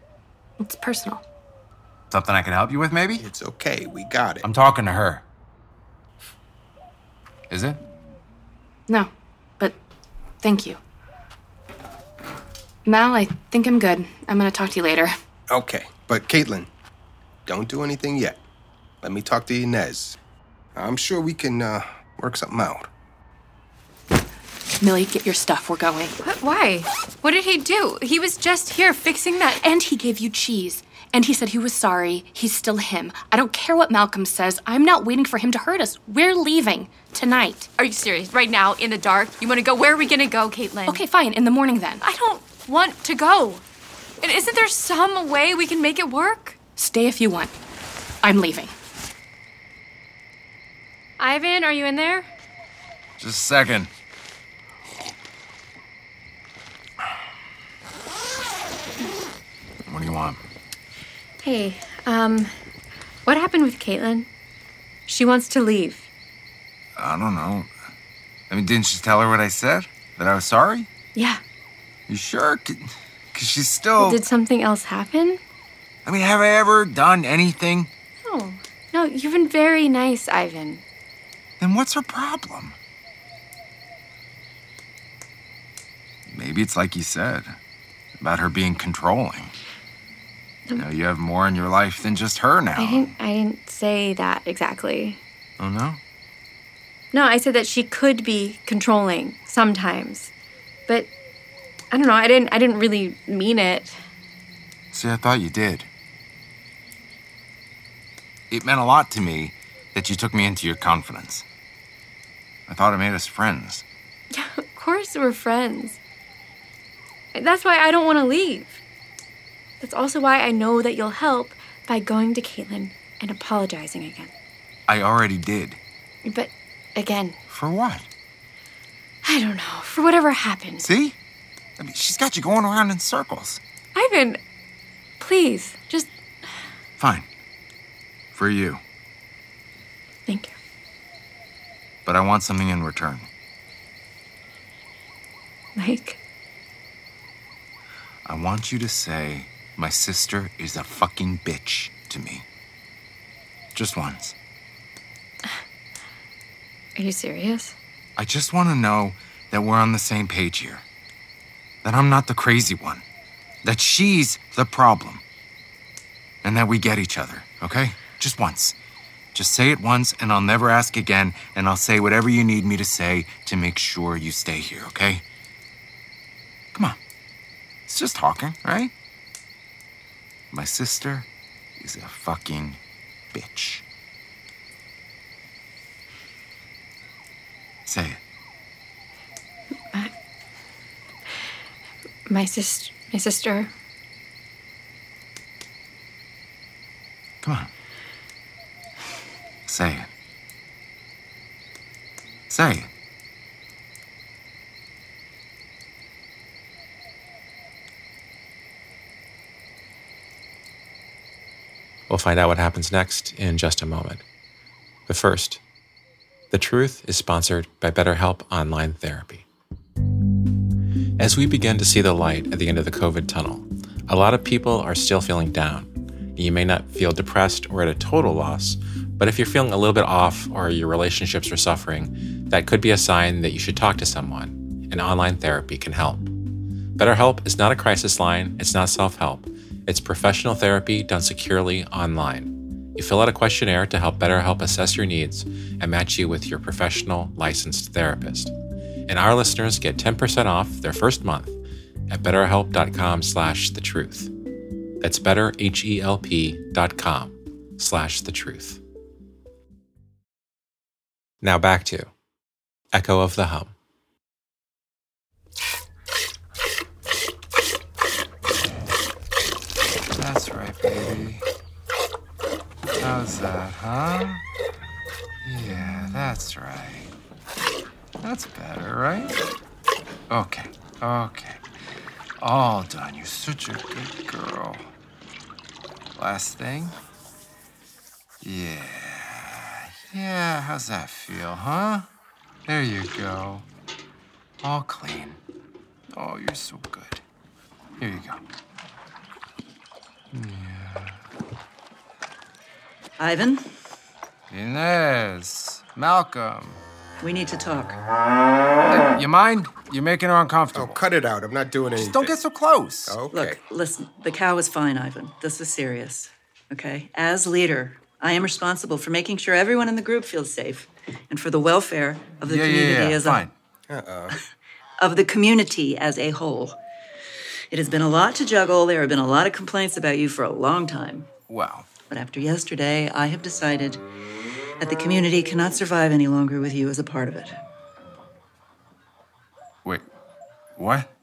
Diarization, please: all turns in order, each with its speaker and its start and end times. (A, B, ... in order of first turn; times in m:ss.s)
0:00.6-0:01.2 A
0:02.1-0:03.2 B
0:03.2-0:04.5 C
0:04.4-0:05.2 B
0:07.5-0:07.8 B
0:08.9-0:09.8 A
0:10.4-0:10.8 A
0:12.8-0:15.1 A
0:15.5-0:16.7 C
0:17.4-0:18.4 C
0:19.0-0:20.2 C
0:20.8-0:22.9 C
0:24.8-0:26.1 A
0:26.2-0:29.6 D
0:29.6-0:37.7 A
0:37.8-0:41.0 D
0:40.9-0:42.0 A
0:42.0-0:43.6 D
0:44.2-0:46.6 D
0:46.7-0:47.5 A
0:48.2-0:48.7 A
0:51.2-0:52.3 D
0:53.2-0:53.9 B
0:59.8-1:00.4 B
1:01.4-1:02.5 D
1:03.2-1:04.3 D
1:05.1-1:06.1 D
1:07.0-1:07.7 B
1:08.5-1:10.9 B
1:11.1-1:11.4 D
1:12.1-1:14.2 B
1:14.0-1:15.4 D
1:16.0-1:17.9 B
1:18.2-1:20.8 D
1:21.6-1:22.8 B
1:26.3-1:27.5 B
1:28.2-1:29.5 B
1:30.7-1:33.1 B
1:32.8-1:35.2 D
1:35.6-1:36.0 B
1:37.1-1:40.3 D
1:41.9-1:44.0 D
1:44.9-1:45.9 B
1:48.5-1:51.4 B
1:52.7-1:53.8 B
1:54.3-1:56.0 D
1:57.3-1:58.8 D
1:59.8-2:04.3 D
2:04.9-2:05.8 B
2:06.2-2:07.4 D
2:07.5-2:08.1 B
2:09.2-2:10.9 D
2:10.8-2:11.1 B
2:11.8-2:13.6 B
2:13.9-2:14.4 D
2:15.2-2:16.1 D
2:17.0-2:17.3 B
2:18.3-2:18.8 B
2:20.3-2:20.6 D
2:22.0-2:23.3 B
2:25.8-2:26.2 D
2:28.2-2:32.4 B
2:33.7-2:34.3 B
2:37.0-2:37.8 D
2:38.2-2:40.8 B
2:41.8-2:43.0 B
2:43.6-2:45.2 B
2:46.4-2:48.7 B
2:49.3-2:55.2 B
2:57.9-2:58.9 B
3:00.5-3:01.3 B
3:01.8-3:02.8 B
3:03.3-3:03.8 B
3:07.8-3:08.2 B
3:12.3-3:13.7 D
3:17.4-3:17.7 B
3:19.6-3:20.1 B
3:22.5-3:22.9 B
3:32.1-3:34.2 E
3:35.1-3:35.6 E
3:36.5-3:39.4 E
3:41.2-3:56.3 E
3:57.0-4:08.5 E
4:09.1-4:11.6 E
4:12.1-4:14.3 E
4:15.0-4:18.8 E
4:21.4-4:22.1 E
4:22.9-4:23.7 E
4:30.2-4:31.4 B
4:33.0-4:34.4 B
4:35.4-4:37.1 B
4:38.2-4:39.4 B
4:40.3-4:41.6 B
4:42.4-4:44.9 B
4:46.2-4:47.0 B
4:48.4-4:52.0 B
4:52.6-4:53.6 B
4:54.6-4:55.4 B
4:56.1-4:57.2 B
4:58.0-4:58.4 B
5:00.3-5:01.2 B
5:03.2-5:03.6 F
5:04.5-5:06.8 B
5:07.2-5:08.0 F
5:09.1-5:11.0 B
5:10.7-5:12.4 C
5:12.0-5:13.2 B
5:13.1-5:13.6 C
5:13.3-5:23.4 F
5:22.4-5:23.5 B
5:23.9-5:24.3 C
5:25.0-5:26.8 F
5:27.7-5:31.3 F
5:31.5-5:31.9 B
5:32.1-5:34.0 F
5:34.8-5:37.6 F
5:40.8-5:41.1 B